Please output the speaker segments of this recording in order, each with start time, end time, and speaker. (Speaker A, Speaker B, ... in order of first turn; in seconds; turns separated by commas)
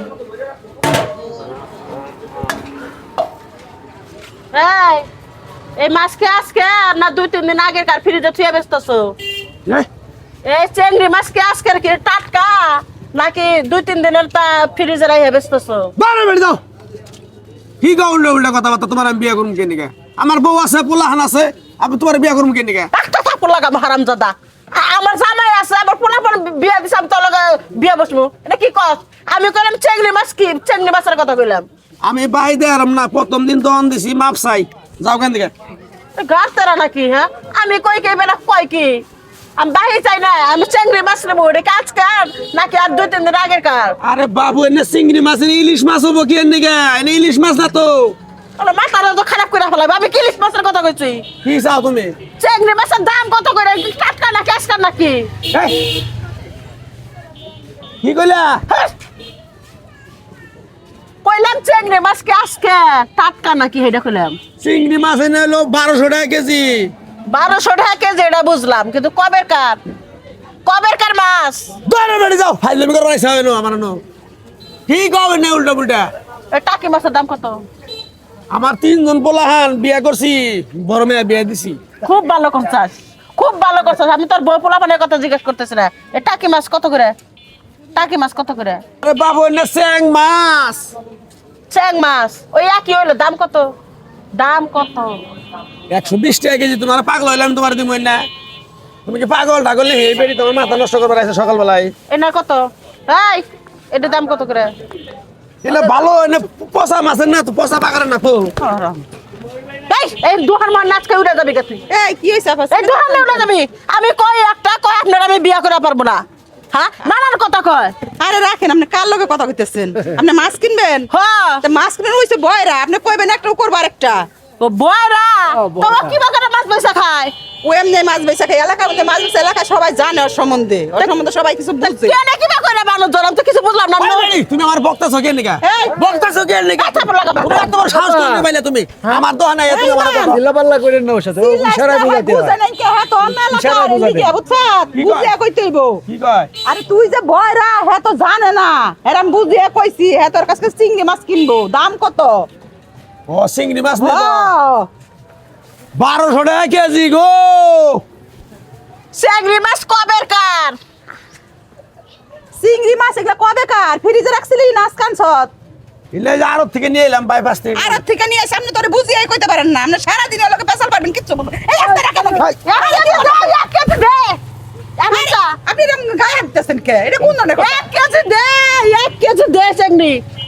Speaker A: 4.5-5.1, Speaker A: 5.8-9.2, Speaker A: 10.4-15.9, Speaker B: 16.0-16.6, Speaker B: 17.8-22.9, Speaker A: 22.9-31.6, Speaker B: 32.0-35.5, Speaker A: 36.2-39.0, Speaker A: 39.6-44.0, Speaker B: 44.0-48.2, Speaker A: 48.6-51.2, Speaker B: 51.4-52.1, Speaker A: 52.4-55.3, Speaker B: 55.5-55.8, Speaker B: 58.0-58.6, Speaker A: 61.2-64.4, Speaker B: 64.6-66.9, Speaker A: 67.3-69.8, Speaker A: 70.7-71.7, Speaker B: 71.8-74.0, Speaker B: 74.9-76.1, Speaker A: 76.5-77.7, Speaker B: 78.5-81.8, Speaker A: 82.0-87.2, Speaker A: 87.9-88.8, Speaker B: 89.0-90.9, Speaker A: 91.7-93.7, Speaker A: 94.3-95.2, Speaker B: 95.9-98.3, Speaker B: 99.0-101.9, Speaker A: 102.1-104.7, Speaker B: 105.6-108.5, Speaker A: 108.6-109.0, Speaker A: 109.9-111.8, Speaker C: 111.9-113.5, Speaker A: 112.7-118.0, Speaker C: 118.2-121.1, Speaker A: 121.1-121.6, Speaker C: 121.6-124.3, Speaker A: 124.6-127.3, Speaker C: 127.6-132.2, Speaker A: 131.8-134.3, Speaker B: 134.0-140.4, Speaker C: 135.6-135.9, Speaker A: 136.8-137.8, Speaker D: 137.8-138.4, Speaker A: 139.7-140.1, Speaker C: 139.8-140.4, Speaker D: 140.3-142.5, Speaker C: 141.3-146.0, Speaker D: 143.3-144.3, Speaker B: 144.9-145.3, Speaker B: 146.1-146.5, Speaker C: 146.6-152.5, Speaker B: 153.3-154.5, Speaker C: 154.0-154.9, Speaker B: 155.9-158.0, Speaker A: 159.1-160.8, Speaker C: 162.5-165.5, Speaker B: 166.1-168.0, Speaker C: 167.7-173.5, Speaker A: 171.8-174.4, Speaker A: 175.0-175.6, Speaker C: 175.1-177.9, Speaker A: 177.6-180.2